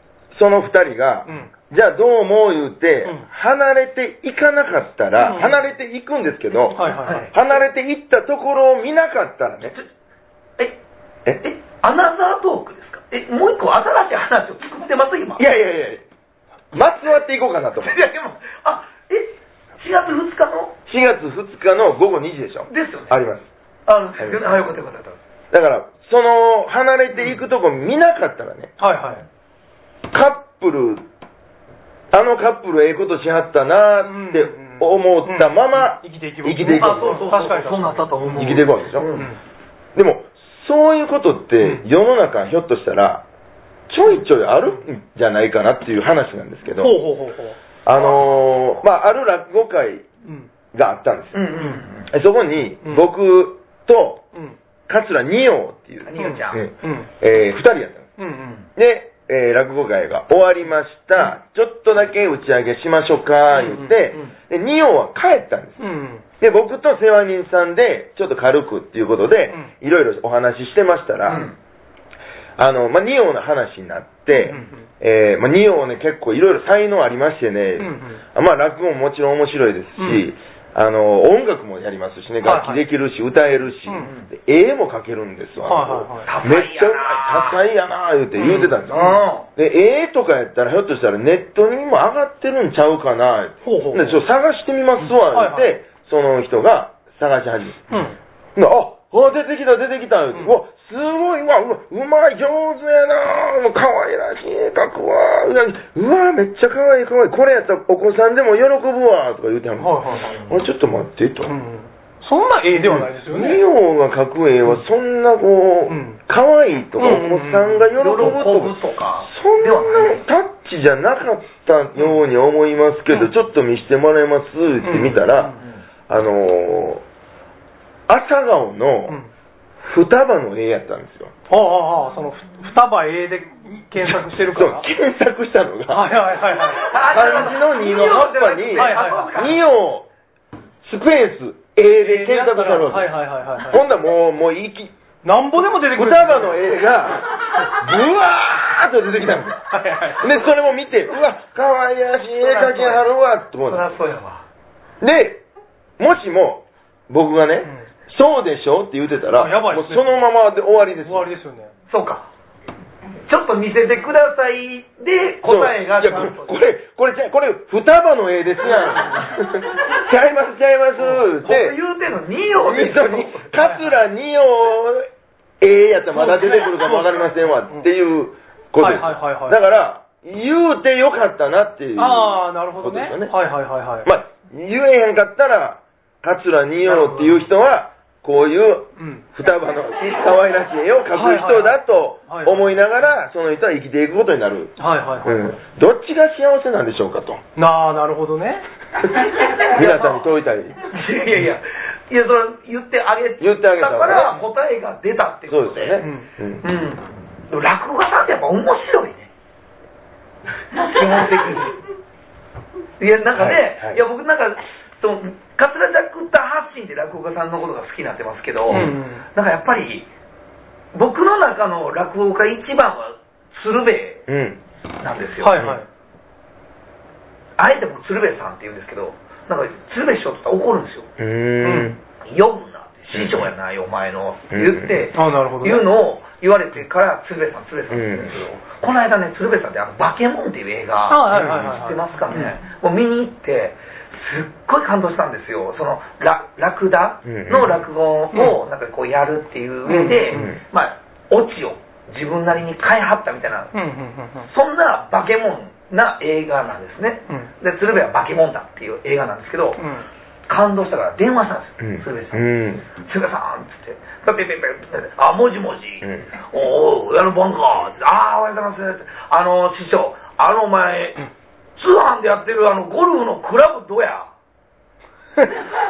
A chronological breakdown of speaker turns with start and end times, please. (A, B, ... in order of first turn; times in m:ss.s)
0:00.3-0:09.7 A
0:05.2-0:05.6 B
0:06.8-0:07.3 B
0:07.0-0:07.3 C
0:11.4-0:15.4 C
0:15.4-0:16.0 A
0:16.7-0:18.0 A
0:17.8-0:20.8 C
0:20.9-0:23.5 A
0:22.7-0:23.2 C
0:23.9-0:25.2 C
0:24.2-0:24.7 A
0:25.5-0:28.7 A
0:28.8-0:29.2 B
0:30.1-0:31.0 A
0:32.1-0:37.2 A
0:34.0-0:38.6 B
0:36.6-0:39.3 C
0:38.4-0:39.2 A
0:40.0-0:43.2 A
0:43.9-0:47.0 A
0:46.8-0:47.6 B
0:47.9-0:50.1 A
0:48.0-0:48.2 C
0:50.7-0:51.5 A
0:51.3-0:52.1 C
0:52.0-0:54.2 A
0:54.9-0:58.1 A
0:56.0-0:56.6 C
0:56.2-0:57.1 B
0:58.2-0:58.6 B
0:58.8-1:05.8 A
1:03.6-1:04.2 B
1:05.8-1:06.2 B
1:06.4-1:11.5 A
1:11.3-1:11.5 C
1:12.6-1:38.0 A
1:14.5-1:14.7 B
1:17.8-1:18.2 B
1:20.0-1:20.3 B
1:22.4-1:22.8 B
1:24.0-1:24.3 C
1:25.6-1:26.3 B
1:26.2-1:27.6 C
1:28.4-1:29.0 B
1:28.9-1:29.5 C
1:33.6-1:34.2 B
1:35.0-1:35.7 B
1:37.9-1:38.2 B
1:38.6-1:51.6 A
1:49.8-1:50.3 B
1:51.5-1:53.6 B
1:52.7-2:05.6 A
1:55.9-1:56.2 B
1:57.0-1:57.9 B
1:58.0-2:00.2 C
2:04.8-2:05.6 B
2:06.1-2:07.0 A
2:08.1-2:09.2 A
2:09.8-2:11.3 A
2:11.5-2:14.9 B
2:14.0-2:16.2 A
2:15.9-2:16.9 B
2:16.8-2:19.6 C
2:17.1-2:20.1 A
2:18.7-2:19.3 B
2:20.8-2:23.1 A
2:22.0-2:23.8 B
2:23.6-2:24.9 A
2:25.2-2:26.7 B
2:25.9-2:29.6 A
2:29.7-2:30.3 B
2:30.2-2:33.9 A
2:32.3-2:33.1 C
2:33.7-2:34.4 C
2:35.0-2:35.4 A
2:36.0-2:41.3 A
2:39.3-2:40.2 B
2:41.0-2:41.7 B
2:41.9-2:42.3 C
2:43.3-2:46.6 C
2:45.4-2:51.8 A
2:51.0-2:51.3 B
2:51.4-2:53.5 C
2:52.6-2:55.1 A
2:53.6-2:54.0 B
2:55.6-3:03.3 A
2:56.1-2:57.9 B
2:58.8-2:59.6 B
3:02.0-3:04.1 B
3:04.0-3:17.4 A
3:06.8-3:07.4 B
3:09.0-3:09.2 B
3:10.0-3:10.3 C
3:11.1-3:11.8 B
3:12.3-3:12.7 B
3:14.8-3:15.4 B
3:17.6-3:18.6 B
3:19.3-3:20.3 C
3:19.7-3:20.9 A
3:20.8-3:26.0 C
3:23.4-3:24.4 A
3:25.5-3:26.6 A
3:26.0-3:26.3 B
3:26.6-3:29.3 C
3:30.7-3:31.8 C
3:33.0-3:40.1 C
3:33.4-3:34.0 A
3:38.7-3:39.2 B
3:40.9-3:44.3 C
3:44.3-3:44.6 A
3:45.0-3:45.6 C
3:45.4-3:45.9 B
3:47.6-3:51.1 C
3:51.2-3:52.0 A
3:51.6-3:52.0 B
3:52.2-4:13.7 C
3:53.1-3:53.5 A
3:54.5-3:55.1 A
3:55.1-3:55.9 B
3:57.9-3:58.4 A
4:01.1-4:02.5 B
4:01.3-4:01.7 A
4:07.2-4:07.8 A
4:09.9-4:10.5 B
4:10.3-4:10.6 A
4:13.7-4:14.5 B
4:14.5-4:19.8 C
4:19.8-4:20.0 B
4:20.5-4:34.3 C
4:21.8-4:22.8 A